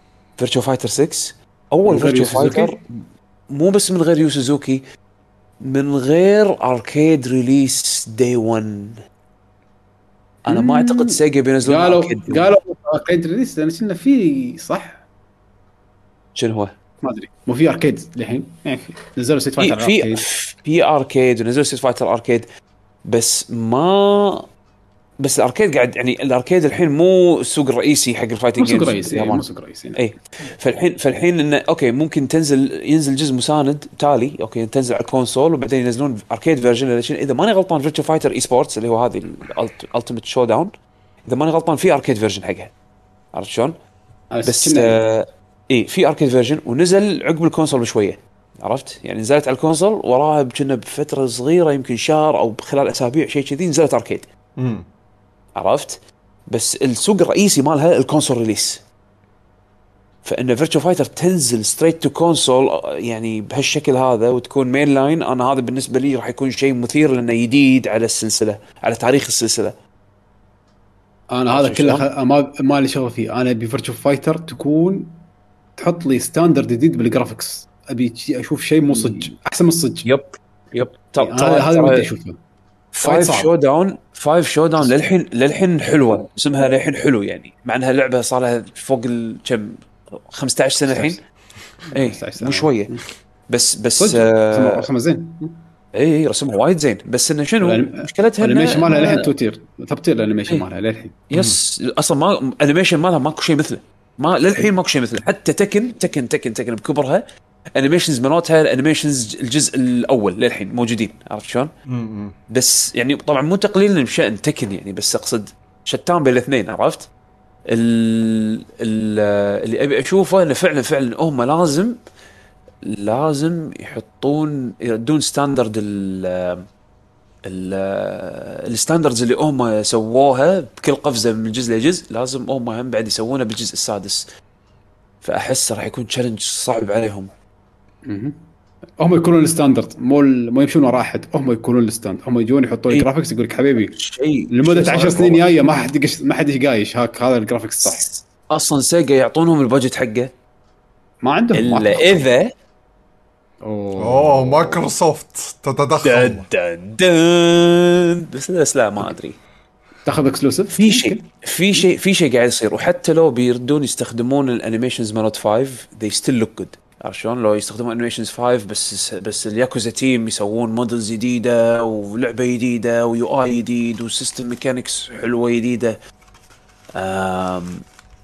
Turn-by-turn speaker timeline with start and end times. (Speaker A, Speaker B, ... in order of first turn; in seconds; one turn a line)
Speaker A: 0.4-2.8
Speaker B: 1.9-2.8
Speaker A: 3.5-4.8
Speaker A: 5.6-9.0
Speaker A: 10.4-12.5
Speaker B: 10.5-15.0
Speaker A: 16.4-16.7
Speaker B: 17.0-20.2
Speaker A: 19.6-22.5
Speaker A: 23.1-24.4
Speaker A: 25.2-29.4
Speaker B: 28.6-30.0
Speaker A: 29.9-40.7
Speaker A: 41.2-42.7
Speaker A: 43.3-43.7
Speaker B: 44.3-45.0
Speaker A: 44.4-54.3
Speaker C: 54.6-54.9
Speaker A: 55.5-58.8
Speaker A: 60.2-69.7
Speaker B: 71.3-75.2
Speaker A: 71.5-72.0
Speaker B: 75.8-80.0
Speaker A: 80.0-82.1
Speaker B: 81.2-82.4
Speaker A: 82.9-91.2
Speaker B: 83.0-83.5
Speaker B: 90.9-91.2
Speaker B: 91.9-93.0
Speaker A: 91.9-92.9
Speaker A: 93.5-94.9
Speaker B: 94.0-95.5
Speaker A: 95.9-99.3
Speaker B: 97.6-101.2
Speaker A: 101.3-111.7
Speaker C: 111.9-112.3
Speaker A: 112.5-117.1
Speaker A: 117.7-122.0
Speaker A: 122.8-126.7
Speaker A: 127.4-134.3
Speaker A: 135.2-137.3
Speaker B: 138.1-138.3
Speaker B: 139.0-143.9
Speaker A: 143.9-145.5
Speaker B: 144.5-148.1
Speaker A: 147.8-150.3
Speaker B: 151.2-152.3
Speaker A: 151.5-152.5
Speaker B: 153.6-154.8
Speaker C: 154.0-156.4
Speaker A: 156.0-159.3
Speaker B: 160.1-161.2
Speaker A: 160.8-176.0
Speaker A: 176.9-177.8